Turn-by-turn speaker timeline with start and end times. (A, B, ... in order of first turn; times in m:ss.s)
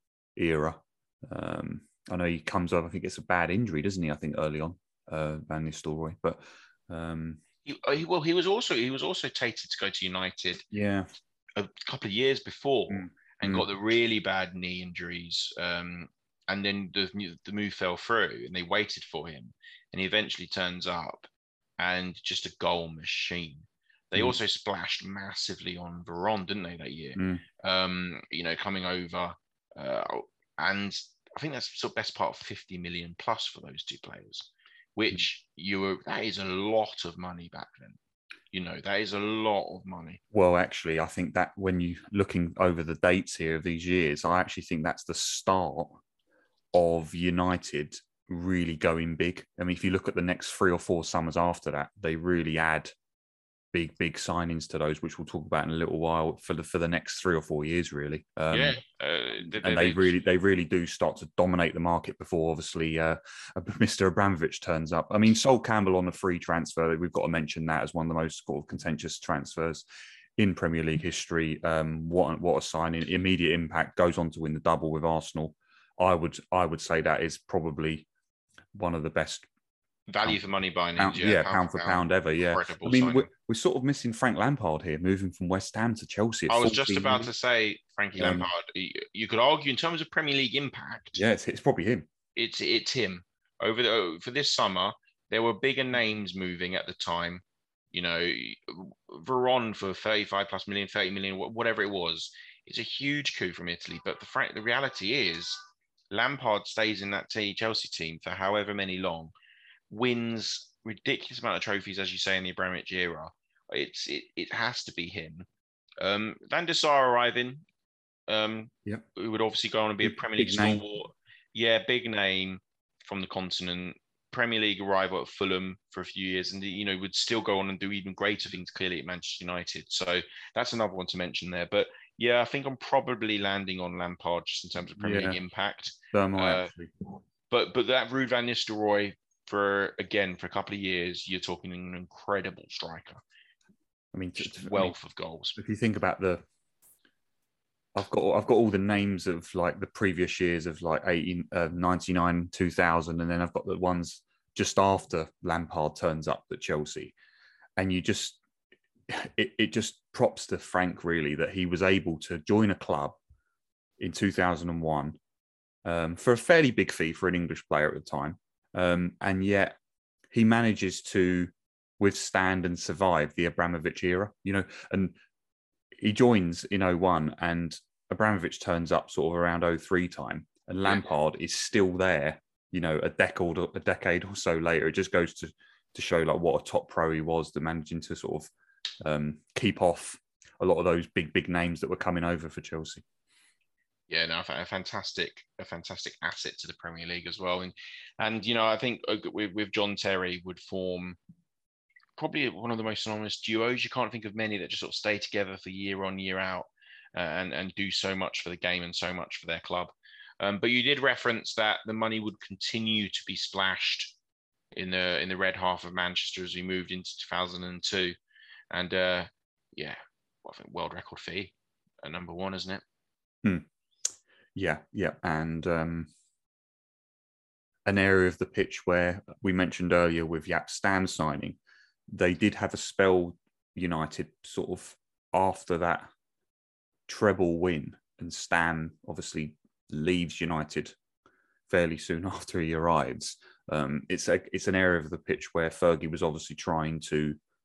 0:00.4-0:07.4 A
0:07.7-0:10.6 B
0:10.7-0:11.1 A
0:11.6-0:38.0 B
0:12.9-0:13.7 A
0:27.2-0:27.4 A
0:38.5-0:40.2 B
0:40.3-0:46.0 A
0:46.7-0:52.9 A
0:53.7-0:58.8 A
0:58.5-1:00.1 B
0:59.6-1:09.8 A
1:10.4-1:18.1 A
1:18.7-1:19.5 A
1:20.1-1:23.3 B
1:21.0-1:27.3 A
1:26.5-1:31.2 B
1:28.2-1:28.5 A
1:31.2-1:32.1 A
1:32.4-1:45.6 B
1:46.1-1:49.3 B
1:49.9-1:55.5 B
1:56.0-1:57.6 B
1:58.3-2:16.7 B
2:00.0-2:00.8 A
2:15.0-2:15.4 A
2:16.1-2:16.9 A
2:17.5-2:23.2 B
2:24.1-2:24.9 A
2:24.4-2:25.6 B
2:25.6-2:26.4 A
2:28.0-2:37.2 A
2:37.8-2:38.4 A
2:39.1-2:43.2 A
2:44.0-2:45.2 A
2:45.8-2:49.8 A
2:50.3-2:55.2 A
2:56.0-3:08.5 A
3:09.0-3:13.0 A
3:14.1-3:21.2 B
3:22.2-3:34.1 B
3:34.7-3:38.2 B
3:38.7-3:42.8 B
3:44.6-3:46.1 A
3:47.8-3:51.6 A
3:52.1-3:56.1 A
3:57.1-4:01.0 A
4:01.7-4:07.4 A